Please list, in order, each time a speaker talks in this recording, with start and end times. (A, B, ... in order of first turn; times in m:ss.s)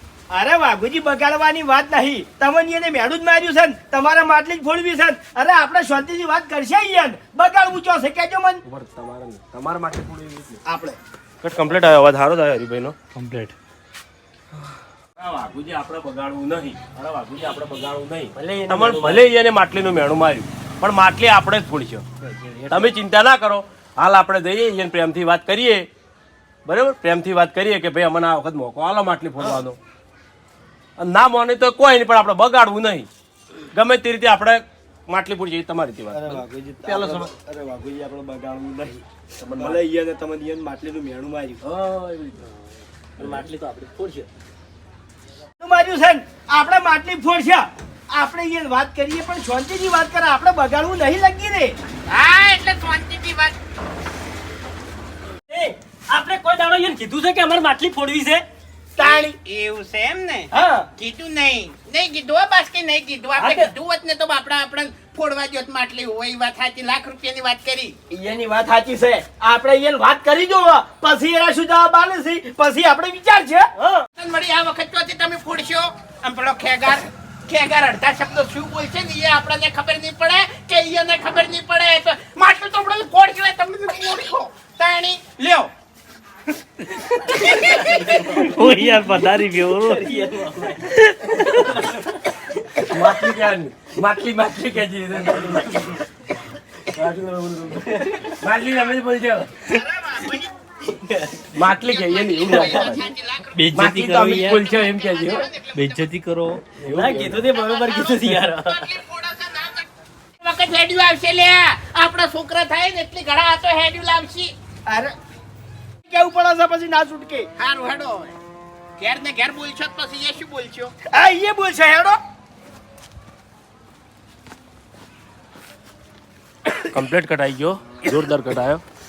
0:00.3-0:08.6 A
0:08.6-0:10.6 B
0:10.6-0:11.0 A
0:11.4-0:13.0 B
0:13.2-0:13.6 C
0:15.2-0:22.0 B
0:18.3-0:19.3 D
0:22.2-0:23.0 D
0:22.7-0:25.9 B
0:26.6-0:29.8 B
0:31.0-0:33.1 B
0:33.7-0:37.3 B
0:36.1-0:39.0 A
0:39.4-0:39.8 B
0:39.5-0:41.6 A
0:41.6-0:42.4 B
0:43.2-0:43.5 B
0:43.2-0:44.3 D
0:45.6-0:51.8 A
0:52.1-0:53.6 E
0:55.5-0:58.4 D
0:59.0-0:59.3 A
0:59.0-1:08.0 E
1:00.5-1:00.9 A
1:03.4-1:03.7 A
1:08.1-1:13.7 A
1:14.2-1:25.7 E
1:27.4-1:28.0 E
1:27.9-1:31.0 D
1:28.3-1:30.1 C
1:31.0-1:31.4 C
1:31.6-1:32.1 D
1:32.8-1:36.0 B
1:36.9-1:39.5 B
1:37.9-1:38.4 D
1:40.0-1:40.4 E
1:40.9-1:41.5 D
1:41.5-1:43.1 B
1:41.9-1:46.1 E
1:42.6-1:42.9 D
1:43.6-1:44.7 C
1:43.7-1:45.5 B
1:45.7-1:46.6 C
1:46.8-1:47.5 B
1:46.8-1:48.9 D
1:47.5-1:49.9 E
1:50.4-1:54.5 E
1:54.9-1:55.1 A
1:56.1-1:57.5 A
1:57.6-1:58.4 E
1:59.0-2:00.9 E
2:01.1-2:02.2 A
2:06.9-2:08.8 B